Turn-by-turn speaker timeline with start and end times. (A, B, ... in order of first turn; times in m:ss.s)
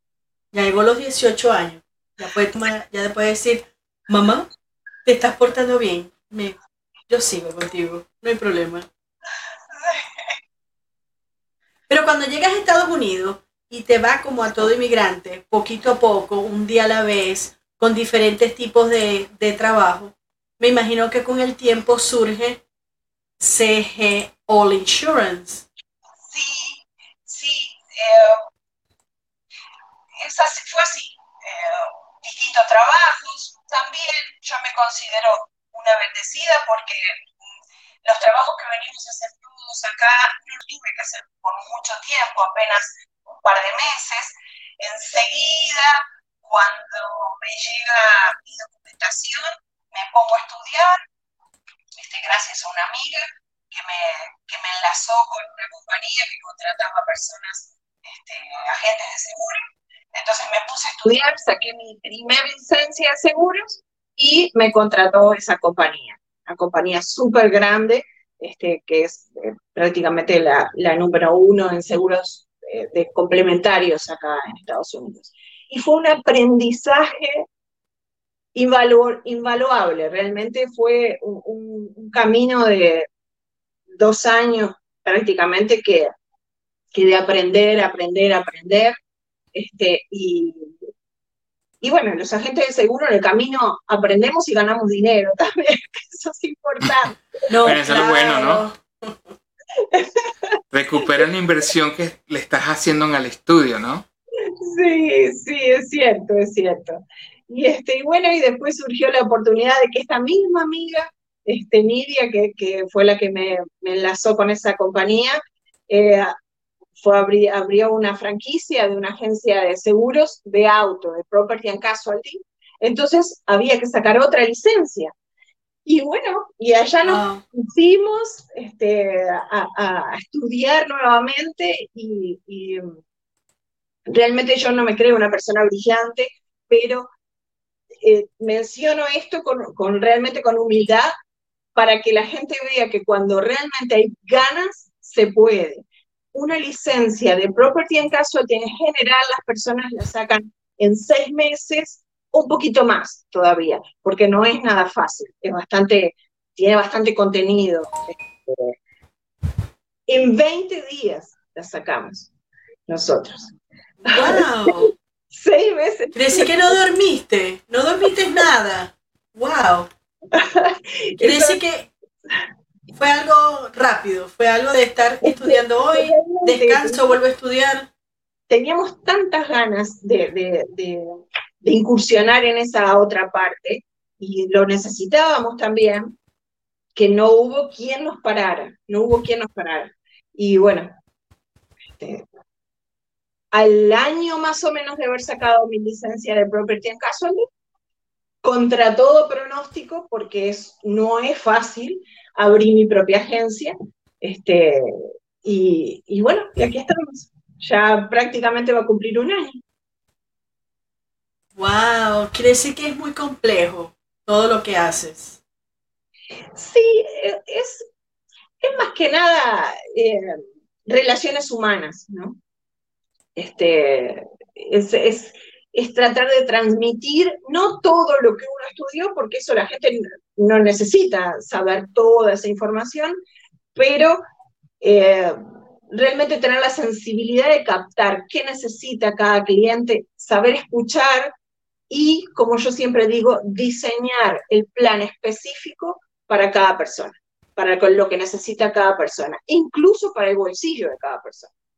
0:00.5-0:04.5 A
0:05.0-0:06.6 A
0:07.1-0:08.9 A
0:09.7-0:10.4 B
0:11.9-0:22.6 A
0:23.4-0:25.6 A
0:26.2-0:28.4 B
0:30.2-0:37.3 B
0:38.0-0:51.0 B
0:52.0-1:17.5 B
1:18.5-1:23.1 B
1:23.9-1:26.1 B
1:26.9-1:28.9 B
1:29.5-1:30.7 B
1:31.8-1:37.2 B
1:37.5-1:39.3 A
1:37.6-1:38.6 C
1:39.8-1:40.6 B
1:40.7-1:44.0 C
1:44.5-1:55.4 B
1:55.9-1:56.3 B
1:57.0-2:05.1 B
2:05.8-2:12.9 B
2:07.0-2:07.4 A
2:14.1-2:17.1 B
2:17.9-2:21.1 B
2:21.8-2:38.7 B
2:40.1-2:42.3 B
2:42.9-2:43.5 B
2:44.0-2:44.9 A
2:44.0-2:46.8 B
2:46.1-2:49.9 A
2:50.3-2:51.6 B
2:51.2-2:51.9 A
2:52.9-2:57.9 A
2:55.2-2:57.2 B
2:58.5-3:06.1 B
3:06.9-3:11.0 B
3:12.0-3:12.2 B
3:13.5-3:17.5 B
3:18.4-3:29.6 B
3:31.6-3:35.4 A
3:36.5-3:37.9 B
3:38.6-3:42.4 B
3:43.4-3:53.2 B
3:53.7-3:54.2 B
3:54.8-3:55.4 B
3:55.9-4:01.3 B
4:01.9-4:11.5 B